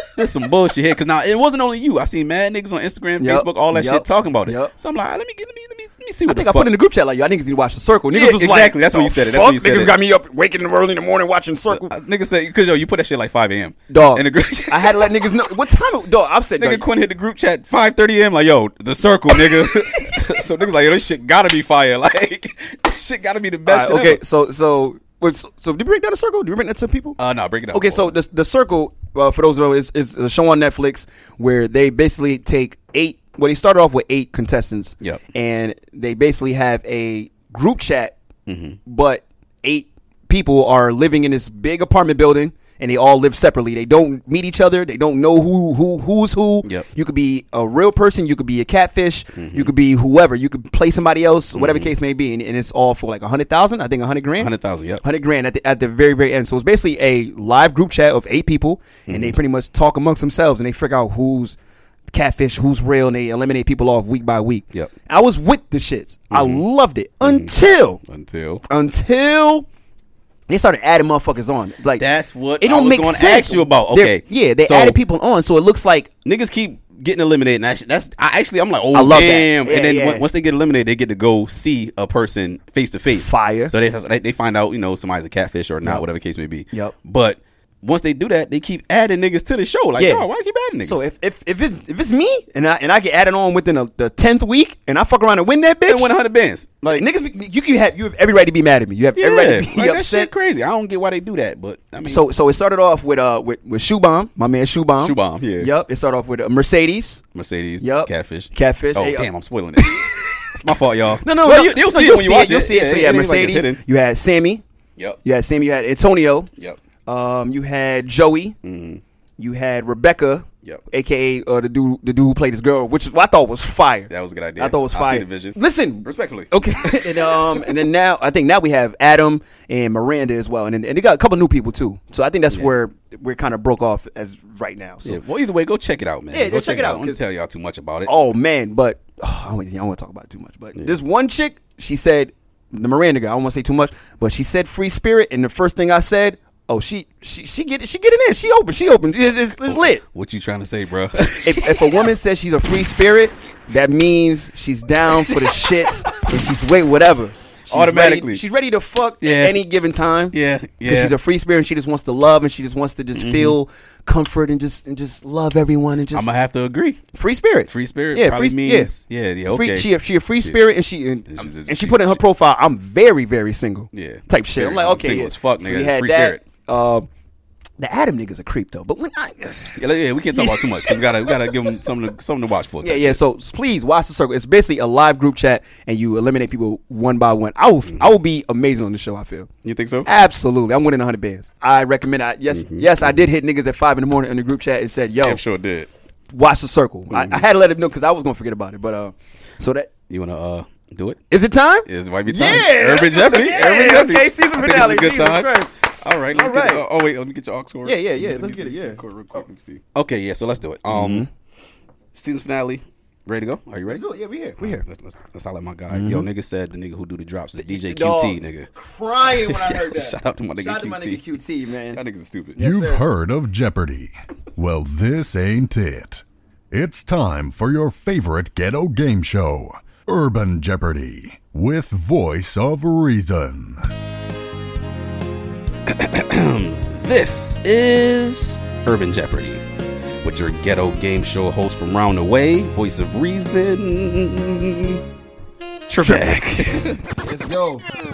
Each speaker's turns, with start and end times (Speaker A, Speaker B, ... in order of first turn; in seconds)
Speaker A: 0.2-6.7, 8.1-10.0, 11.7-15.3, 16.6-24.2, 27.2-28.1, 38.5-38.8, 49.4-49.7, 51.5-51.9, 54.4-55.0, 59.1-59.4, 66.3-66.6, 67.2-68.6, 72.0-75.0, 76.2-91.0, 95.9-97.1, 99.2-102.2, 105.0-105.7, 107.3-113.8, 118.6-119.0, 124.1-127.7, 135.0-138.1, 149.6-152.0, 155.3-155.6, 157.7-158.4, 159.2-159.6, 160.3-161.2, 163.1-163.6, 166.1-167.0, 167.7-170.6, 171.3-172.2, 173.9-176.4, 179.8-183.2, 189.6-190.1, 192.5-193.2, 195.2-195.9, 197.1-197.4, 200.1-201.2, 201.9-211.3, 212.2-214.1, 214.6-218.7, 219.2-221.3, 221.9-222.6, 235.9-239.7, 240.2-245.0, 245.9-247.0
Speaker B: 3.2-4.7, 6.3-11.9, 13.9-16.9, 19.6-20.1, 23.7-27.2, 27.7-38.1, 38.9-61.6, 62.1-68.0, 68.7-69.7, 70.5-72.0, 72.6-76.1, 78.9-80.2, 83.2-83.7, 90.0-90.3, 90.8-96.1, 96.9-100.3, 102.0-107.2, 107.8-109.3, 109.8-110.5, 111.2-114.6, 115.2-116.5, 117.1-118.6, 119.4-135.2, 136.3-137.2, 138.1-150.0, 151.4-166.3, 167.1-168.9, 169.5-177.1, 177.8-179.8, 180.3-181.3, 182.8-189.5, 190.1-195.4, 196.3-199.9, 201.3-205.7, 206.3-206.8, 207.8-209.0, 210.9-211.3, 213.9-214.8, 215.9-216.3, 217.7-222.0, 222.6-223.0, 246.0-246.4, 247.1-247.8
Speaker C: 222.6-233.8